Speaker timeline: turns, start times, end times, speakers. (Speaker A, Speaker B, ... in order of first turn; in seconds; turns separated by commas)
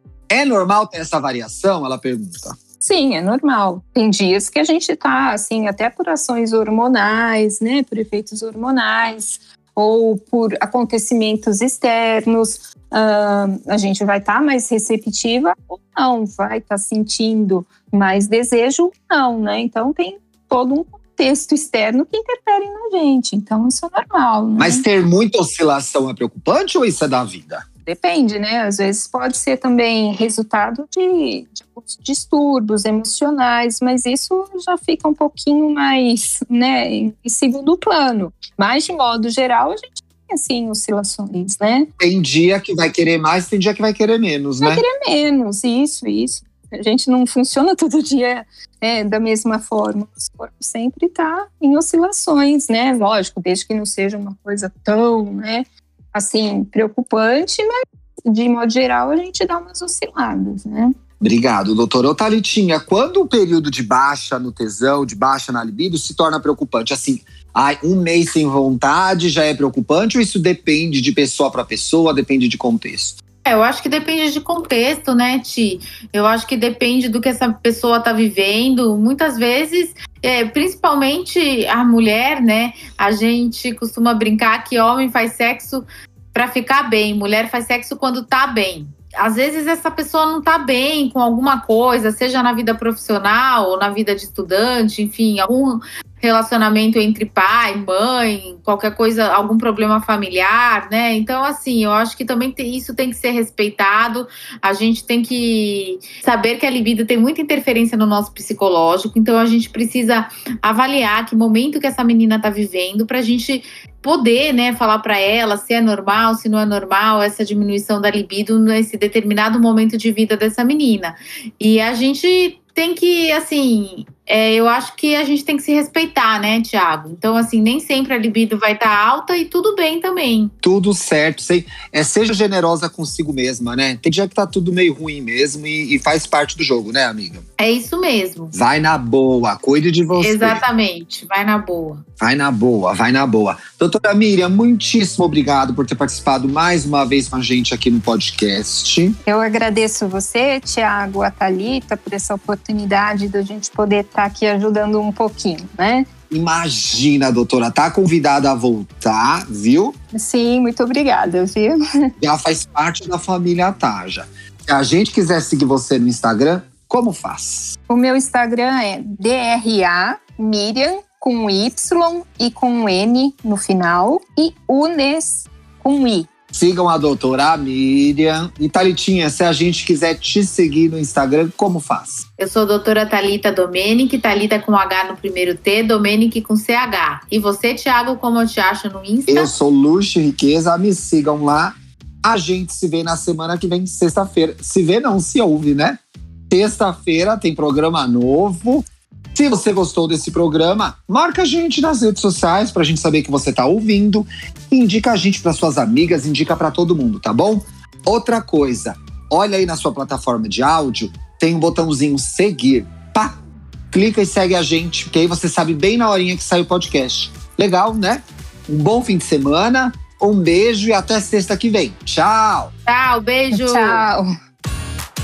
Speaker A: 0.3-2.6, Speaker B: 2.8-24.8, Speaker A: 24.6-27.7, Speaker B: 27.9-41.9, Speaker A: 42.0-44.8, Speaker B: 44.6-57.7, Speaker B: 58.3-60.9, Speaker A: 61.2-73.2, Speaker C: 73.5-130.5, Speaker A: 130.6-137.4, Speaker C: 137.6-138.5, Speaker A: 138.5-140.6, Speaker C: 140.2-142.0, Speaker A: 142.2-149.2, Speaker B: 149.2-156.1, Speaker A: 156.3-159.9, Speaker B: 160.1-161.8, Speaker A: 162.2-167.8, Speaker B: 167.9-176.3, Speaker A: 176.5-182.3, Speaker C: 182.4-189.5, Speaker A: 189.3-213.3, Speaker A: 213.9-222.7, Speaker C: 222.9-224.1, Speaker B: 223.5-224.3